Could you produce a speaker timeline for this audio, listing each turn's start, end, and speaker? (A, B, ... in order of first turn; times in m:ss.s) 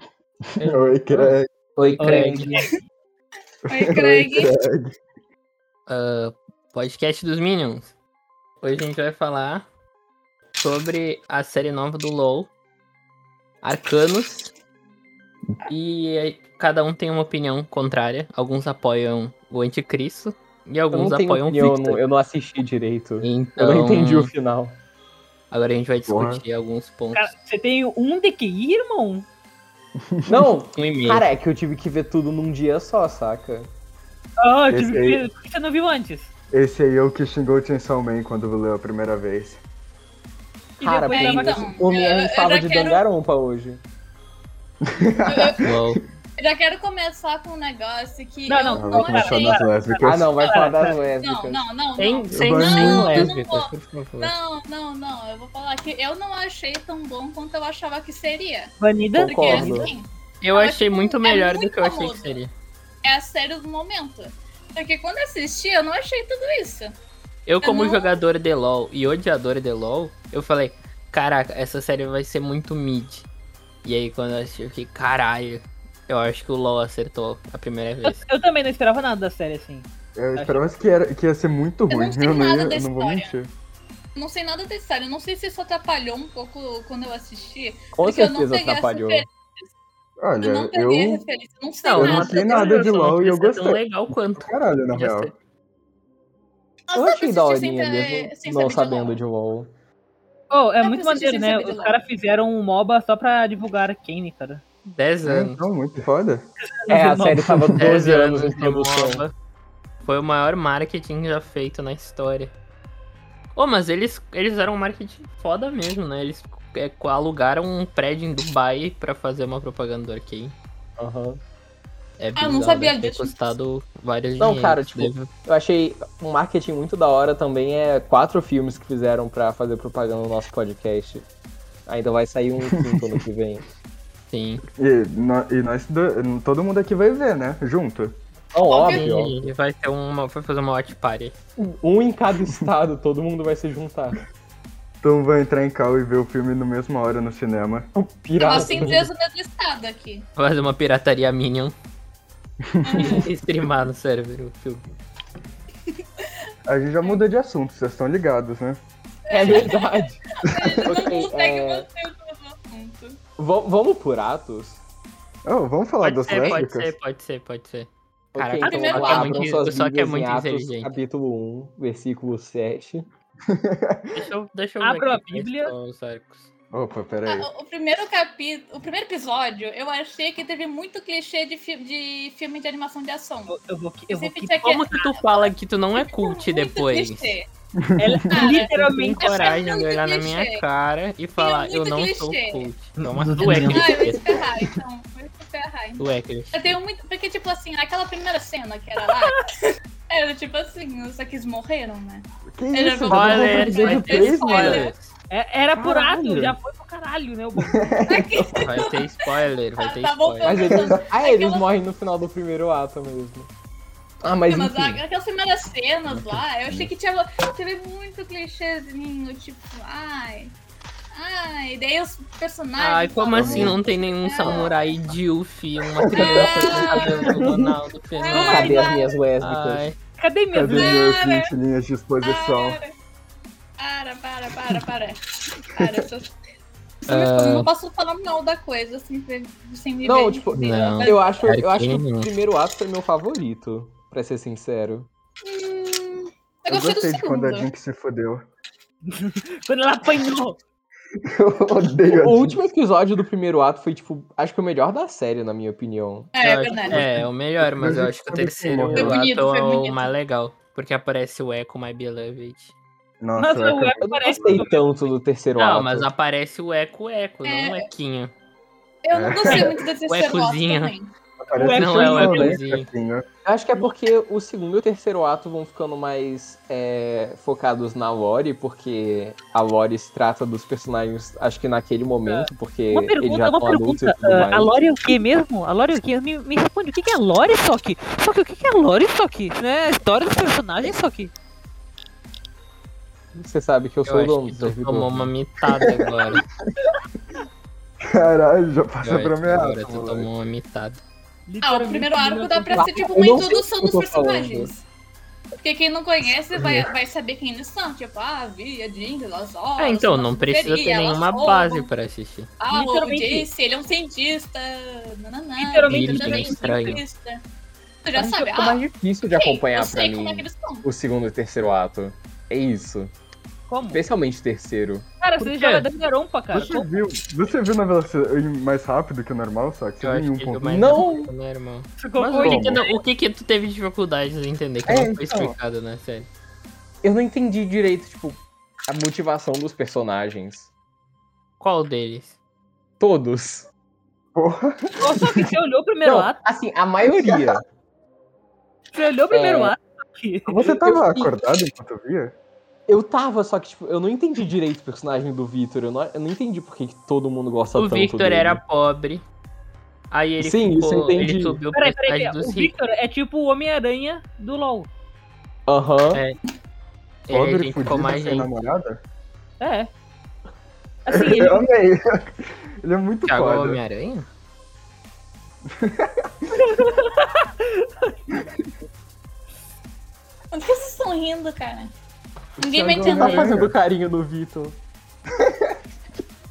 0:00.5-0:01.5 A
0:01.8-0:02.6 B
0:01.8-0:02.4 C
0:02.0-0:02.8 D
0:03.7-0:04.5 E
0:03.7-0:04.9 A
0:05.9-0:07.9 B
0:08.6-0:09.7 B
0:10.6-0:12.5 B
0:13.6-0:14.5 B
0:15.7-0:22.0 B
0:20.9-0:24.8 C
0:23.2-0:24.3 B
0:25.5-0:27.3 B
0:26.1-0:26.4 A
0:27.1-0:29.3 D
0:30.1-0:30.4 A
0:30.3-0:33.7 C
0:30.8-0:31.3 B
0:34.4-0:36.3 D
0:34.7-0:35.2 A
0:36.5-0:39.6 A
0:40.8-0:41.8 D
0:40.8-0:43.8 C
0:41.1-0:43.0 E
0:44.9-0:46.0 A
0:45.3-0:45.7 E
0:45.6-0:46.0 B
0:46.4-0:49.6 E
0:48.5-0:51.0 D
0:48.7-0:50.3 A
0:50.0-0:51.6 C
0:51.2-1:02.4 E
0:52.0-0:54.3 B
0:52.3-0:53.3 A
0:58.8-0:59.9 D
0:59.2-0:59.9 C
1:00.4-1:02.5 B
1:03.0-1:06.9 E
1:07.5-1:13.3 B
1:07.6-1:08.2 E
1:13.8-1:18.2 B
1:18.0-1:20.8 D
1:20.2-1:23.5 A
1:21.9-1:23.3 E
1:24.2-1:29.6 E
1:27.9-1:29.3 C
1:30.2-1:31.2 A
1:30.4-1:33.0 E
1:31.8-1:35.4 B
1:32.0-1:35.3 A
1:36.9-1:39.2 E
1:36.9-1:39.7 C
1:40.5-1:44.6 D
1:40.8-1:42.0 E
1:44.9-1:45.6 B
1:45.2-1:46.5 A
1:46.6-1:47.4 D
1:46.9-1:49.2 C
1:47.3-1:47.8 A
1:47.8-1:49.3 B
1:50.0-1:52.5 B
1:53.6-2:00.6 B
2:01.0-2:01.4 C
2:02.2-2:05.3 B
2:02.4-2:03.5 E
2:04.4-2:11.3 C
2:11.9-2:13.6 C
2:14.3-2:14.6 B
2:14.8-2:18.2 A
2:18.5-2:19.4 C
2:18.6-2:19.2 E
2:18.9-2:21.4 B
2:21.6-2:24.2 C
2:25.0-2:27.9 A
2:27.9-2:29.0 C
2:28.4-2:30.3 E
2:30.4-2:31.7 B
2:32.6-2:33.2 A
2:32.8-2:33.2 E
2:33.0-2:34.8 B
2:36.7-2:38.8 A
2:39.3-2:43.2 E
2:39.3-2:40.2 C
2:40.5-2:40.9 A
2:40.8-2:41.9 C
2:43.4-2:44.8 C
2:45.5-2:46.9 A
2:46.0-2:51.0 B
2:48.4-2:53.0 C
2:48.6-2:49.1 D
2:48.6-2:49.4 E
2:53.5-2:54.0 A
2:54.1-2:56.5 B
2:54.8-2:55.7 D
2:56.7-2:57.5 A
2:57.3-3:03.6 E
3:03.5-3:04.6 D
3:04.1-3:07.5 E
3:04.6-3:07.4 B
3:07.8-3:08.3 A
3:08.0-3:09.2 D
3:08.3-3:10.6 E
3:08.5-3:14.2 B
3:11.4-3:12.7 E
3:13.2-3:14.2 C
3:13.4-3:24.9 E
3:16.0-3:16.8 B
3:22.5-3:24.8 A
3:23.1-3:25.1 B
3:23.1-3:24.8 C
3:25.3-3:27.9 D
3:25.8-3:26.5 A
3:27.7-3:28.6 A
3:28.1-3:29.0 E
3:28.6-3:30.7 B
3:29.8-3:31.7 E
3:30.4-3:33.5 C
3:34.2-3:35.0 C
3:34.5-3:40.6 E
3:36.1-3:36.9 A
3:41.1-3:45.0 E
3:42.8-3:48.8 B
3:43.3-3:43.8 A
3:46.1-3:46.6 A
3:46.1-3:47.6 E
3:47.3-3:47.7 A
3:48.1-3:49.2 E
3:48.4-3:49.8 C
3:49.4-3:50.0 B
3:50.2-3:51.0 D
3:50.5-3:52.8 A
3:50.7-3:51.5 E
3:52.2-3:52.9 E
3:53.8-3:56.3 E
3:57.0-4:01.2 E
3:57.1-3:57.7 B
4:00.0-4:05.1 C
4:00.6-4:02.3 B
4:05.4-4:07.7 E
4:06.7-4:08.5 A
4:09.1-4:10.6 D
4:11.3-4:12.6 A
4:12.1-4:16.3 C
4:16.3-4:17.0 E
4:16.4-4:22.7 B
4:17.6-4:19.2 A
4:18.9-4:19.2 C
4:19.0-4:20.1 E
4:23.2-4:24.7 A
4:23.4-4:25.1 D
4:24.0-4:26.1 C
4:25.6-4:28.3 B
4:27.4-4:27.9 E
4:29.0-4:31.1 E
4:29.1-4:29.8 A
4:30.1-4:30.9 B
4:31.4-4:33.2 A
4:31.5-4:32.6 D
4:31.7-4:32.9 B
4:33.4-4:44.7 C
4:42.3-4:51.3 D
4:53.3-4:55.3 C
4:54.1-4:56.4 B
4:55.9-4:56.4 A
4:58.0-5:00.3 A
4:59.0-5:01.0 B
5:01.5-5:03.1 D
5:01.6-5:04.8 E
5:02.8-5:04.7 C
5:05.6-5:11.9 E
5:06.6-5:06.8 A
5:09.8-5:12.5 B
5:12.6-5:17.4 E
5:12.7-5:13.5 D
5:15.6-5:16.6 D
5:15.9-5:17.0 B
5:18.0-5:20.9 E
5:18.2-5:23.1 C
5:23.7-5:24.0 D
5:23.9-5:25.1 C
5:25.2-5:26.9 D
5:25.4-5:25.9 B
5:26.5-5:31.0 A
5:30.0-5:36.3 B
5:30.7-5:31.3 C
5:32.0-5:32.9 D
5:32.2-5:32.8 A
5:34.9-5:35.5 C
5:37.0-5:40.7 C
5:41.6-5:42.4 B
5:43.0-5:43.7 C
5:44.4-5:45.5 A
5:45.0-5:46.4 D
5:46.0-5:47.6 C
5:47.0-5:47.6 A
5:48.9-5:50.6 D
5:49.3-5:49.8 C
5:50.5-5:52.4 A
5:50.6-5:51.3 C
5:52.9-5:58.6 C
5:57.8-5:59.2 B
6:00.1-6:02.7 B
6:00.4-6:01.6 C
6:01.7-6:04.9 D
6:05.7-6:06.2 C
6:07.3-6:08.5 B
6:07.3-6:09.0 A
6:09.6-6:09.9 D
6:11.0-6:11.7 D
6:11.1-6:13.8 A
6:13.3-6:14.3 B
6:15.7-6:16.6 A
6:16.6-6:18.2 D
6:20.5-6:21.9 E
6:22.6-6:23.6 E
6:22.6-6:23.8 A
6:22.9-6:24.8 C
6:25.4-6:25.8 A